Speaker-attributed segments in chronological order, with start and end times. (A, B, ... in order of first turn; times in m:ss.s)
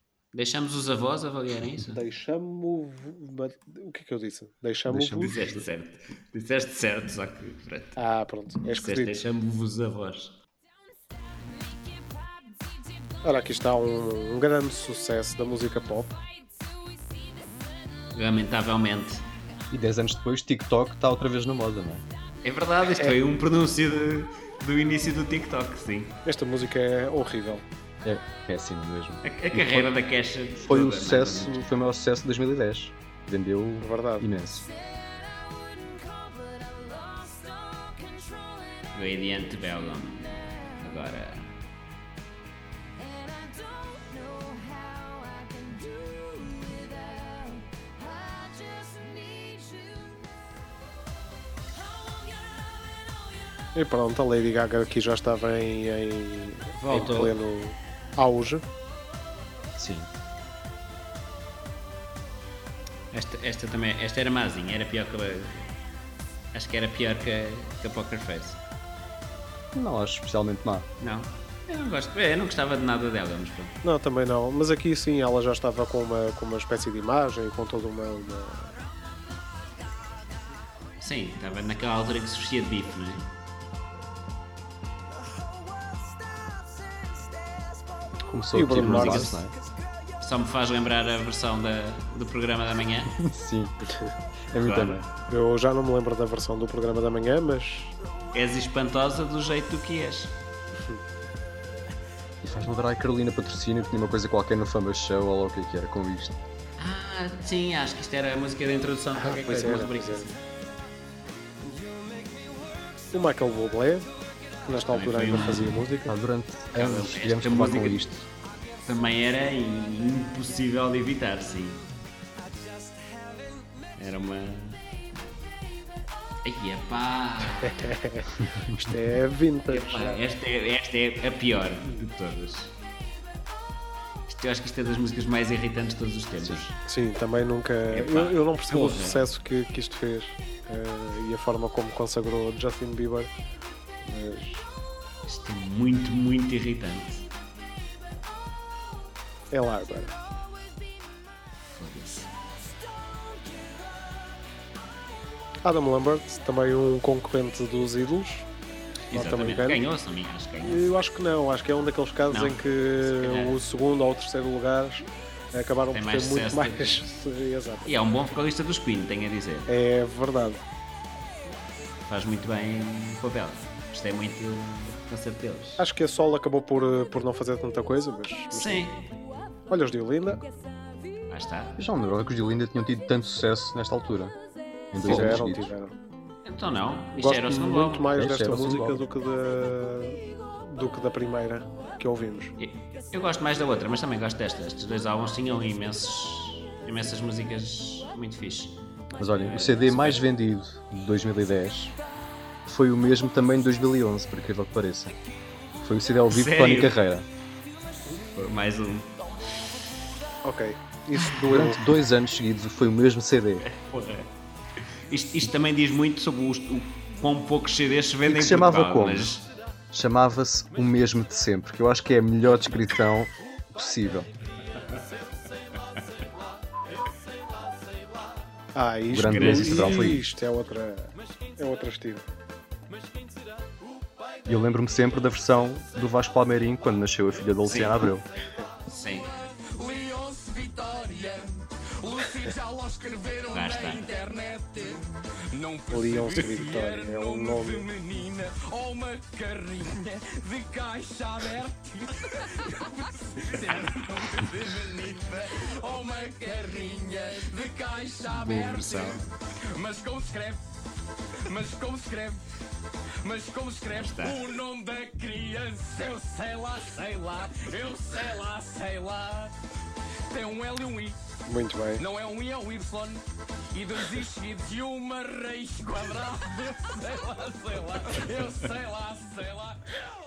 0:00.3-0:02.0 A
0:01.9-0:05.4 B
0:04.9-0:05.6 C
0:04.9-0:08.0 A
0:08.0-0:09.2 B
0:08.7-0:10.4 A
0:13.2-0:16.2 B
0:18.1-0:19.2 A
0:19.7-0:22.0 C
0:22.4-0:26.2 A
0:26.2-0:27.6 B
0:28.0-0:29.9 C
0:29.2-0:31.7 A
0:30.6-0:34.7 C
0:33.8-0:34.3 B
0:38.9-0:41.5 A
0:53.7-0:58.6 B
0:56.8-0:57.3 A
0:59.8-1:00.1 C
1:03.1-1:05.7 A
1:06.5-1:08.6 A
1:09.7-1:10.9 C
1:11.0-1:13.8 A
1:13.8-1:18.7 B
1:21.0-1:23.2 A
1:28.3-1:29.5 C
1:28.5-1:29.4 B
1:28.8-1:29.3 A
1:30.2-1:33.1 A
1:33.2-1:33.7 C
1:34.5-1:35.1 C
1:34.6-1:35.1 A
1:35.3-1:37.9 B
1:38.3-1:40.3 A
1:42.4-1:46.4 C
1:46.8-1:50.3 A
1:49.2-1:50.3 B
1:53.1-1:54.1 B
1:54.6-1:56.2 B
1:54.9-1:55.8 A
1:56.0-1:58.2 C
1:56.7-1:58.2 A
1:58.8-2:01.8 A
2:04.0-2:04.8 A
2:06.4-2:07.8 A
2:07.6-2:10.2 B
2:09.7-2:12.7 A
2:14.3-2:16.8 A
2:16.8-2:23.3 B
2:17.9-2:19.3 A
2:24.0-2:24.6 B
2:25.3-2:27.2 A
2:29.5-2:30.1 B
2:31.7-2:32.3 A
2:35.6-2:38.4 B
2:39.1-2:40.8 A
2:39.1-2:39.8 B
2:40.6-2:47.9 B
2:42.3-2:43.6 A
2:45.9-2:47.0 A
2:47.8-2:49.7 A
2:49.7-2:50.6 B
2:52.1-2:55.8 A
2:55.8-2:58.8 B
2:58.5-2:59.0 A
2:59.7-3:00.4 B
3:01.3-3:01.8 A
3:01.8-3:04.3 C
3:04.9-3:05.7 C
3:05.0-3:05.9 B
3:05.0-3:05.4 A
3:06.4-3:08.2 A
3:07.2-3:12.5 B
3:08.1-3:09.0 C
3:12.6-3:20.3 A
3:19.2-3:21.9 C
3:22.6-3:25.2 C
3:25.8-3:27.3 C
3:26.3-3:26.9 A
3:28.3-3:29.2 A
3:30.4-3:31.8 B
3:31.4-3:33.6 C
3:33.6-3:34.3 A
3:35.1-3:39.4 A
3:38.3-3:39.4 C
3:39.9-3:44.3 C
3:48.7-3:52.2 B
3:49.1-3:50.2 C
3:49.2-3:50.1 A
3:54.5-3:58.2 C
3:57.6-3:58.1 A
3:58.9-3:59.3 A
3:59.7-4:19.2 D
4:03.5-4:04.1 A
4:05.9-4:07.9 B
4:18.4-4:19.2 A
4:19.8-4:20.6 D
4:21.5-4:22.4 D
4:23.2-4:29.5 D
4:24.0-4:24.4 A
4:30.3-4:31.2 D
4:31.5-4:32.0 B
4:32.0-4:33.2 D
4:33.7-4:39.8 D